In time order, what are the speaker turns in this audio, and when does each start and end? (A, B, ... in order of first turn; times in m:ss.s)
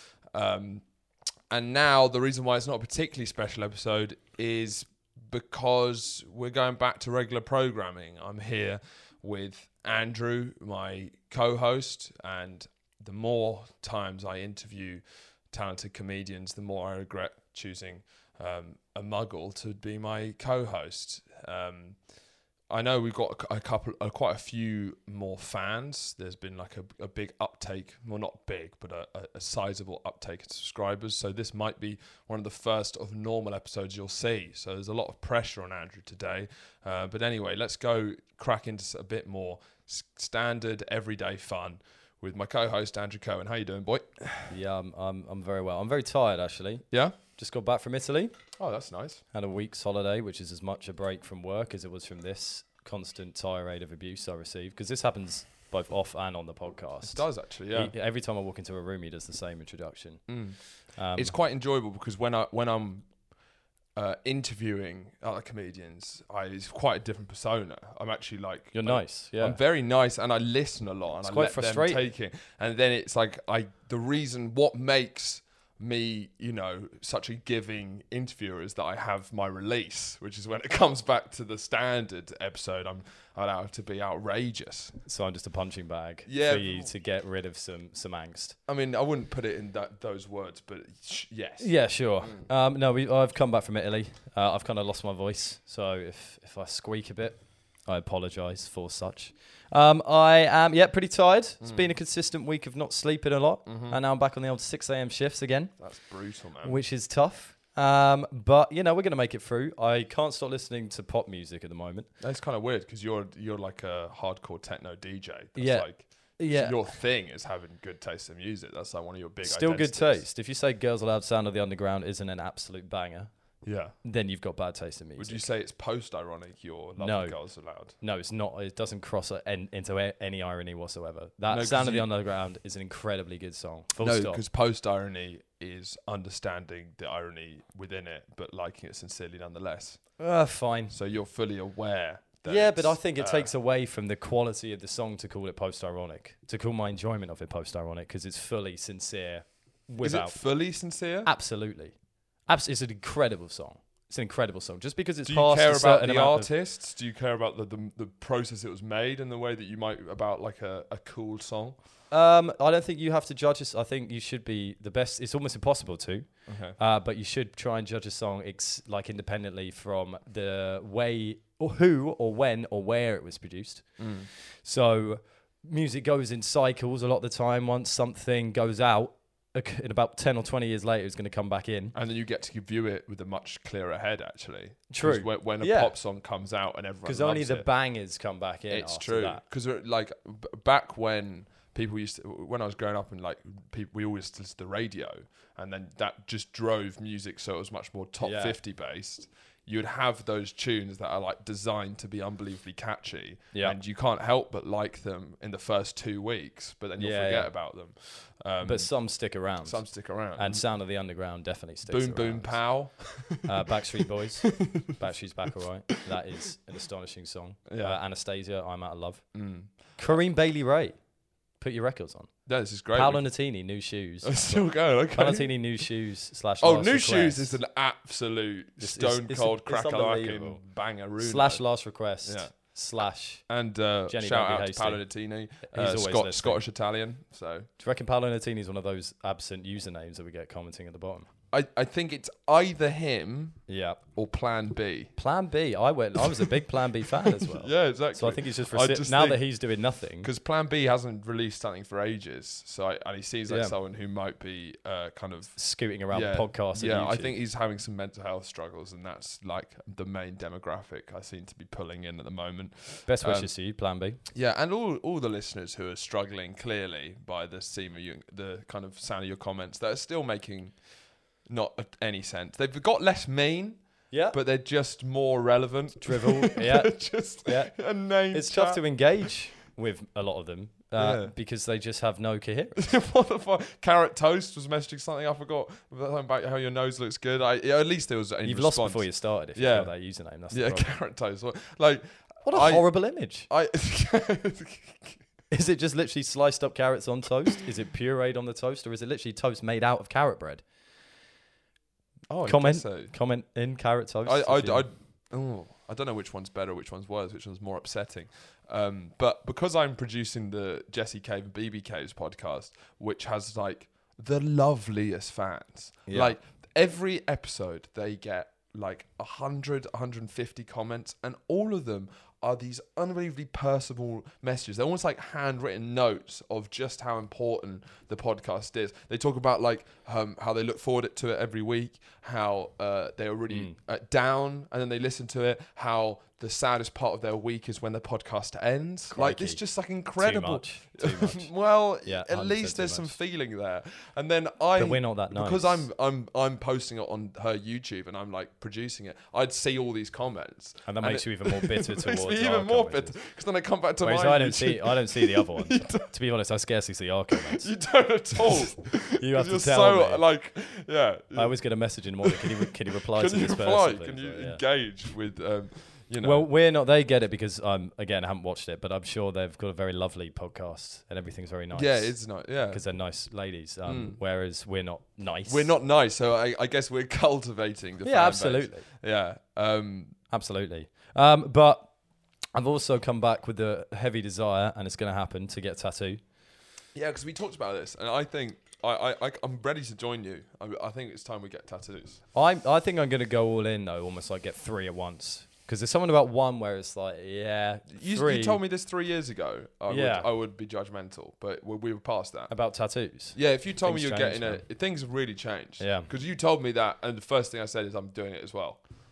0:00.3-0:00.8 A
0:01.5-0:22.0 A
0:22.7-0:44.5 A
0:44.5-0:48.3 B
0:46.9-0:47.2 A
0:48.6-0:49.2 A
0:49.3-1:00.2 B
0:57.0-0:57.9 A
1:00.3-1:00.6 A
1:01.0-1:01.3 B
1:01.1-1:03.1 A
1:04.0-1:25.0 A
1:08.7-1:09.6 B
1:11.2-1:12.0 B
1:25.0-1:28.6 B
1:26.3-1:26.9 A
1:28.7-1:31.7 A
1:31.6-1:45.7 B
1:41.6-1:41.9 A
1:43.7-1:44.0 A
1:45.8-1:46.8 A
1:46.6-1:52.1 B
1:52.2-2:00.2 A
1:55.6-1:56.8 B
1:59.4-2:03.3 B
2:03.6-2:04.0 A
2:04.0-2:05.5 B
2:05.2-2:08.0 A
2:07.0-2:07.4 B
2:08.0-2:14.4 B
2:11.5-2:12.1 A
2:14.0-2:20.1 A
2:20.2-2:21.0 B
2:20.9-2:23.5 A
2:22.5-2:30.4 B
2:30.0-2:31.3 A
2:31.2-2:32.0 B
2:32.5-2:36.5 B
2:35.2-2:41.8 A
2:42.1-2:53.9 B
2:46.5-2:46.8 A
2:54.0-2:54.3 A
2:54.6-3:02.0 B
3:02.0-3:07.7 A
3:04.9-3:05.9 B
3:07.0-3:09.4 B
3:08.7-3:28.9 A
3:18.2-3:18.6 B
3:27.0-3:27.5 B
3:28.6-3:29.8 B
3:29.6-3:30.6 A
3:30.4-3:32.6 B
3:31.9-3:35.0 A
3:33.4-3:39.2 B
3:37.7-3:38.0 A
3:39.3-3:39.7 A
3:40.0-3:41.0 B
3:41.6-3:42.3 B
3:42.5-3:43.2 A
3:42.9-3:47.6 B
3:44.2-3:45.4 A
3:46.6-3:51.6 A
3:48.8-3:50.6 B
3:51.2-3:53.4 B
3:52.2-3:52.5 A
3:53.5-3:57.7 A
3:54.1-3:55.0 B
3:55.7-3:56.6 B
3:57.8-4:01.3 B
4:01.5-4:03.6 A
4:03.7-4:04.0 B
4:04.2-4:05.1 A
4:05.2-4:10.3 B
4:07.4-4:09.4 A
4:10.2-4:15.6 A
4:13.5-4:13.7 B
4:15.6-4:17.4 B
4:16.1-4:23.5 A
4:23.1-4:24.2 B
4:24.3-4:30.7 A
4:31.5-4:33.8 A
4:34.1-4:34.4 B
4:34.3-4:38.8 A
4:36.0-4:37.8 B
4:38.3-4:42.8 B
4:41.0-4:41.3 A
4:42.8-4:49.9 A
4:48.4-4:50.9 B
4:50.5-4:52.9 A
4:52.4-4:53.5 B
4:53.5-4:55.2 A
4:55.5-5:00.6 B
5:02.3-5:03.1 A
5:02.4-5:04.9 B
5:04.3-5:56.1 A
5:16.1-5:16.4 B
5:33.5-5:33.8 B
5:39.1-5:39.6 B
5:40.2-5:41.5 B
5:42.0-5:43.2 B
5:44.8-5:45.9 B
5:50.9-5:53.2 B
5:54.0-5:57.7 B
5:57.3-6:01.6 A
5:59.2-6:00.2 B
6:01.4-6:04.6 B
6:02.2-6:06.5 A
6:06.2-6:15.7 B
6:11.7-6:12.8 A
6:13.9-6:14.2 A
6:15.5-6:20.2 A
6:18.0-6:18.9 B
6:20.3-6:21.9 B
6:22.6-6:26.2 B
6:27.0-6:32.2 A
6:32.3-6:38.6 B
6:37.9-6:42.5 A
6:39.9-6:40.3 B
6:42.5-6:44.6 B
6:43.4-6:48.8 A
6:45.8-6:46.1 B